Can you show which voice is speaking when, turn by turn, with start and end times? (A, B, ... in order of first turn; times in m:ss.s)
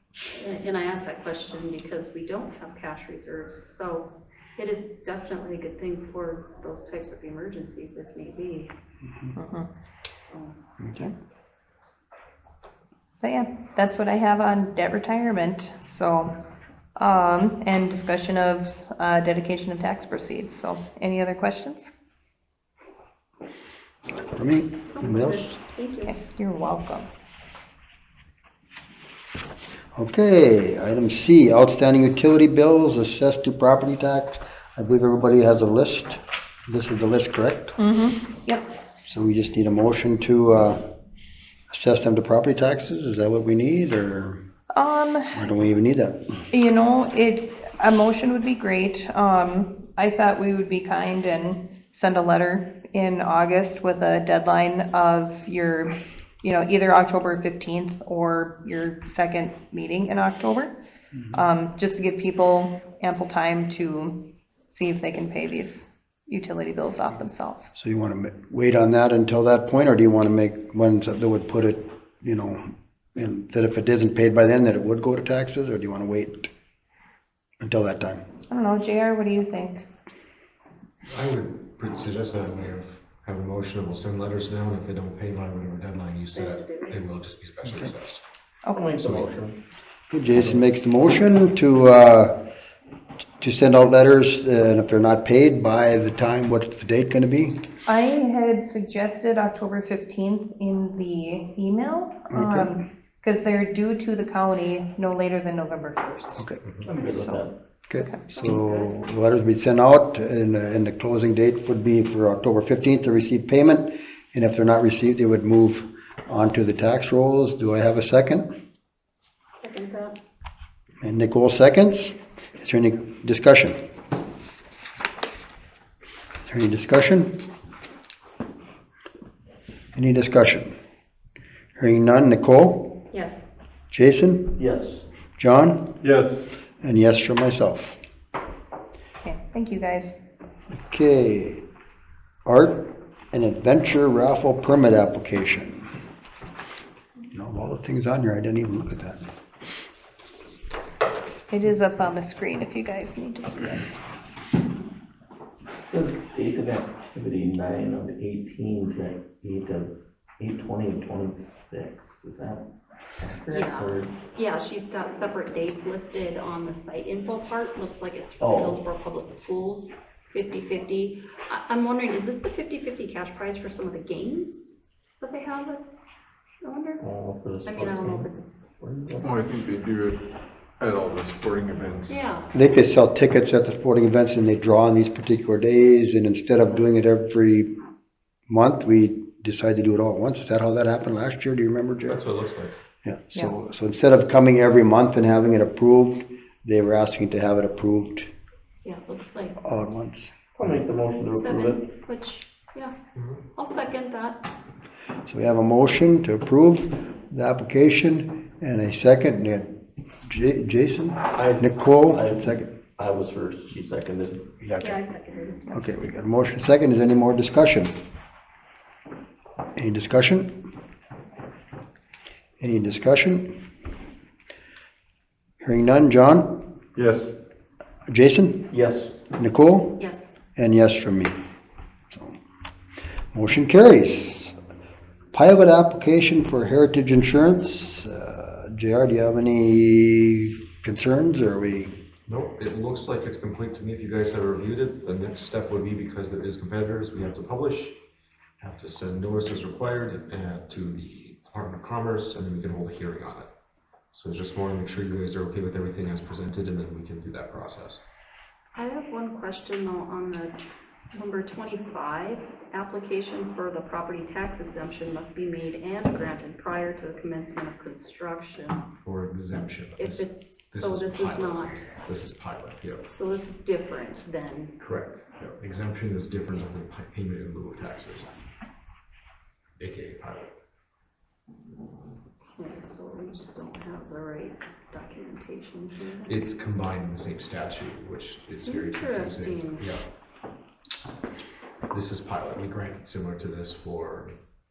0:00.4-0:08.7 A
0:09.4-0:09.7 B
0:10.3-0:10.6 A
0:10.8-0:11.1 C
0:13.2-0:16.4 B
0:17.0-0:21.9 B
0:24.1-0:25.6 C
0:24.9-0:26.2 A
0:26.0-0:27.1 B
0:30.0-0:37.8 C
0:37.8-0:38.7 B
0:39.0-0:40.8 C
0:41.7-0:44.4 C
0:44.7-0:45.5 B
0:45.3-0:46.2 C
0:46.5-1:00.7 B
1:01.3-1:07.7 B
1:07.8-1:12.6 C
1:13.2-1:16.5 C
1:17.6-1:18.2 C
1:18.5-1:19.9 B
1:21.1-1:28.2 D
1:26.3-1:27.0 A
1:28.7-1:28.9 B
1:28.7-1:29.6 E
1:28.9-1:29.3 D
1:30.1-1:32.3 C
1:33.4-1:37.6 C
1:37.9-1:46.5 B
1:42.3-1:42.7 C
1:46.4-1:46.6 C
1:46.8-1:47.6 E
1:47.0-1:47.4 B
1:47.9-1:58.5 C
1:48.0-1:48.5 B
1:48.1-1:49.1 A
1:59.6-2:00.2 A
2:01.0-2:03.8 C
2:06.5-2:07.4 C
2:10.0-2:10.7 C
2:11.8-2:12.9 C
2:13.1-2:13.5 A
2:13.9-2:14.6 C
2:14.6-2:15.0 E
2:15.4-2:15.9 C
2:16.0-2:16.5 F
2:16.8-2:18.0 C
2:19.2-2:20.2 B
2:20.7-2:21.6 C
2:22.5-2:25.9 C
2:27.3-2:29.2 C
2:31.5-2:33.8 B
2:35.8-2:42.7 E
2:43.2-2:44.1 E
2:43.5-2:55.8 A
2:48.4-2:48.8 E
2:56.6-2:57.0 A
2:57.0-2:59.3 E
2:57.6-2:58.5 A
2:59.2-3:00.2 F
3:00.8-3:02.1 F
3:02.1-3:02.5 A
3:02.5-3:07.7 C
3:08.5-3:12.2 C
3:12.1-3:12.8 D
3:13.0-3:18.3 C
3:18.8-3:19.6 A
3:19.6-3:20.3 C
3:20.6-3:21.8 E
3:21.2-3:22.9 A
3:23.6-3:24.4 A
3:25.3-3:29.7 C
3:30.3-3:32.7 C
3:31.3-3:34.5 E
3:34.6-3:35.0 C
3:34.7-3:35.6 A
3:35.7-3:37.9 C
3:39.8-3:40.5 C
3:42.6-3:43.5 C
3:45.6-3:46.6 C
3:47.0-3:47.3 F
3:48.1-3:48.7 C
3:48.7-3:49.2 E
3:49.3-3:50.0 C
3:50.0-3:50.3 A
3:50.6-3:51.3 C
3:52.1-3:52.4 C
3:53.3-3:54.6 C
3:55.3-4:01.9 C
4:02.3-4:08.0 D
4:08.6-4:13.5 D
4:14.1-4:18.0 D
4:18.8-4:20.6 A
4:21.1-4:28.8 A
4:29.0-4:33.1 D
4:30.0-4:31.9 A
4:33.1-4:34.7 A
4:34.8-4:38.3 D
4:39.8-4:40.5 D
4:42.6-4:46.4 A
4:46.3-4:50.1 D
4:48.6-4:49.9 A
4:51.9-4:54.4 D